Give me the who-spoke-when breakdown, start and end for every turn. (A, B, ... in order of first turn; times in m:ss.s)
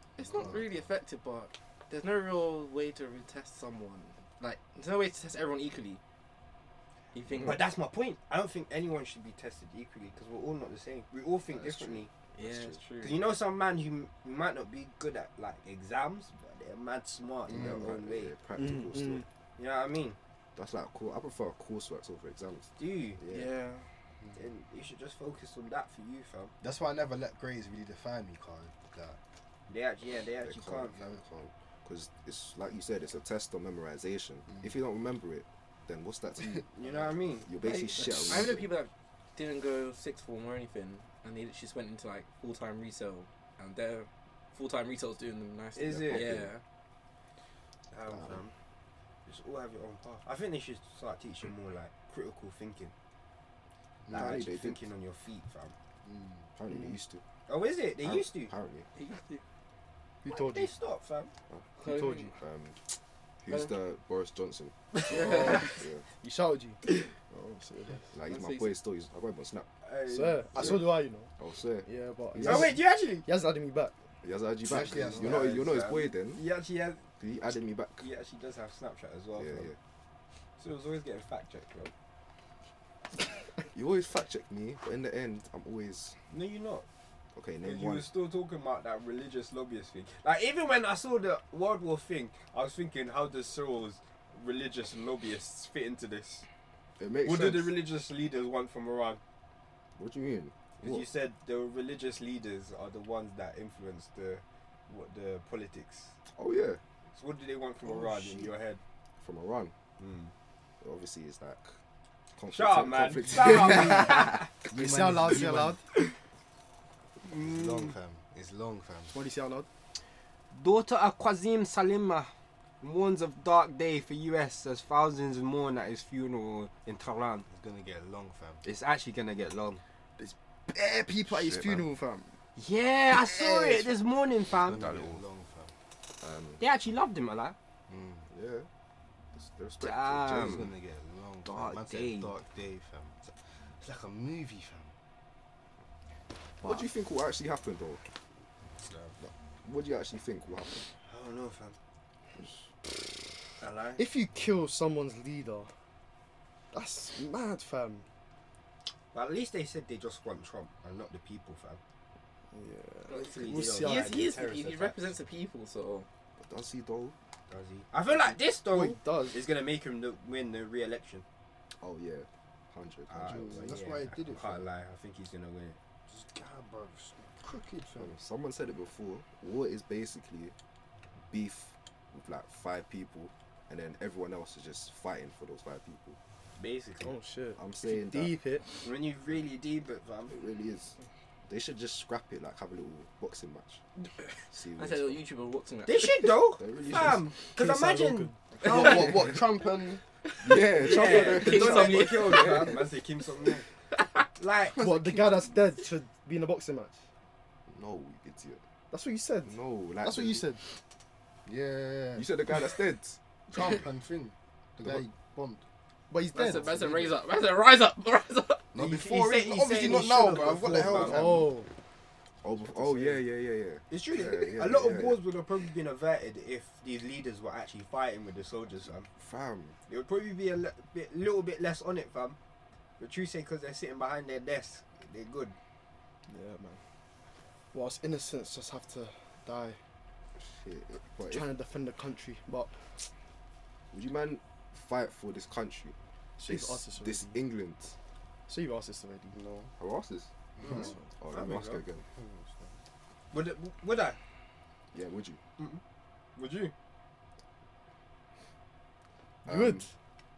0:00.2-0:06.0 A
0:00.2-0:00.8 B
0:07.2-0:07.7 A
0:07.3-0:07.6 C
0:07.4-0:12.1 D
0:11.5-0:12.8 C
0:12.4-0:13.3 A
0:13.0-0:18.3 D
0:17.5-0:17.9 B
0:17.5-0:19.2 C
0:18.6-0:19.2 E
0:19.6-0:20.2 D
0:20.6-0:23.6 C
0:22.8-0:23.2 D
0:23.3-0:23.8 E
0:24.4-0:26.5 D
0:26.6-0:29.2 B
0:29.7-0:31.0 D
0:30.4-0:38.7 C
0:36.8-0:37.5 D
0:37.6-0:46.6 A
0:45.8-0:46.3 D
0:46.0-0:46.5 C
0:47.9-0:48.5 D
0:48.0-0:48.4 C
0:49.3-0:52.9 D
0:54.0-0:54.4 B
0:54.1-0:54.8 C
0:54.1-0:55.8 D
0:56.0-0:56.4 B
0:56.6-0:57.2 C
0:57.5-0:58.5 D
0:58.0-0:58.9 C
0:59.0-0:59.4 A
1:00.2-1:00.7 E
1:00.2-1:01.3 D
1:01.5-1:02.8 C
1:01.8-1:02.3 A
1:03.4-1:06.0 C
1:05.1-1:05.7 A
1:05.2-1:05.7 E
1:06.2-1:06.8 E
1:07.3-1:08.1 E
1:08.1-1:09.7 C
1:08.3-1:08.8 A
1:09.8-1:10.8 D
1:10.1-1:11.3 E
1:10.6-1:12.8 C
1:11.8-1:13.9 E
1:12.4-1:13.3 D
1:14.2-1:16.4 C
1:14.6-1:15.6 B
1:15.2-1:17.0 D
1:17.2-1:18.1 C
1:18.0-1:19.7 D
1:19.4-1:19.8 C
1:20.6-1:21.9 D
1:23.7-1:26.2 C
1:26.3-1:26.9 D
1:27.3-1:28.1 C
1:27.6-1:36.4 D
1:37.0-1:37.8 C
1:37.2-1:39.2 D
1:40.0-1:41.1 C
1:40.8-1:46.1 D
1:46.3-1:46.8 C
1:47.2-1:48.8 D
1:47.8-1:48.5 C
1:49.2-1:49.7 C
1:50.0-1:50.3 D
1:50.8-1:51.7 C
1:52.4-1:54.4 C
1:52.5-1:54.5 D
1:53.3-1:55.8 B
1:54.7-1:55.8 E
1:57.2-1:57.9 D
1:57.2-1:59.1 B
1:59.1-1:59.7 E
2:00.5-2:07.5 D
2:07.5-2:08.6 B
2:08.6-2:09.8 D
2:10.2-2:12.3 E
2:11.3-2:11.9 C
2:12.6-2:14.9 D
2:13.1-2:14.0 B
2:14.5-2:15.2 C
2:14.5-2:15.7 B
2:16.2-2:16.6 C
2:16.6-2:17.6 D
2:17.9-2:18.3 B
2:18.3-2:18.7 C
2:19.3-2:20.6 C
2:19.8-2:20.7 D
2:20.3-2:24.9 B
2:21.5-2:22.4 D
2:26.6-2:28.0 C
2:29.2-2:30.9 C
2:31.1-2:31.8 D
2:33.6-2:34.0 D
2:34.0-2:35.7 E
2:36.7-2:38.0 E
2:39.1-2:41.8 D
2:42.5-2:44.1 E
2:43.1-2:45.2 D
2:43.1-2:46.1 A
2:46.4-2:47.2 C
2:47.5-2:51.2 D
2:48.7-2:49.4 E
2:51.8-2:53.8 C
2:53.1-2:55.8 D
2:53.3-2:54.7 B
2:56.1-2:58.2 B
2:58.0-3:00.5 C
3:01.3-3:06.2 C
3:06.6-3:07.1 D
3:07.0-3:08.7 E
3:07.6-3:08.4 C
3:08.8-3:10.4 D
3:10.3-3:13.8 C
3:14.5-3:15.2 C
3:14.8-3:16.4 A
3:15.9-3:19.4 D
3:16.6-3:17.3 C
3:17.6-3:19.1 E
3:18.6-3:20.0 B
3:18.7-3:19.2 A
3:20.3-3:22.7 A
3:20.4-3:22.8 C
3:20.8-3:23.6 D
3:24.4-3:24.8 D
3:24.8-3:27.0 E
3:24.8-3:25.5 B
3:27.7-3:28.6 C
3:28.9-3:30.6 E
3:29.5-3:30.5 C
3:31.5-3:32.5 B
3:32.2-3:33.2 C
3:33.5-3:35.6 B
3:36.1-3:36.9 E
3:36.3-3:38.7 A
3:38.7-3:41.6 B
3:38.8-3:41.2 D
3:41.0-3:41.7 E
3:42.4-3:45.2 C
3:42.7-3:43.2 D
3:43.9-3:49.1 D
3:49.2-3:49.8 C
3:49.9-3:52.4 D
3:53.0-3:55.6 D
3:56.3-3:56.8 E
3:57.7-3:59.8 E
4:00.4-4:01.5 C
4:01.3-4:02.7 E
4:03.9-4:08.0 C
4:06.4-4:07.3 E
4:08.5-4:09.4 E
4:09.3-4:09.7 B
4:09.8-4:12.0 C
4:10.6-4:10.9 B
4:10.7-4:11.0 E
4:11.3-4:11.8 D
4:12.1-4:12.7 B
4:13.3-4:14.2 D
4:14.9-4:15.4 C
4:16.4-4:16.7 D
4:19.4-4:19.9 C
4:19.5-4:19.9 E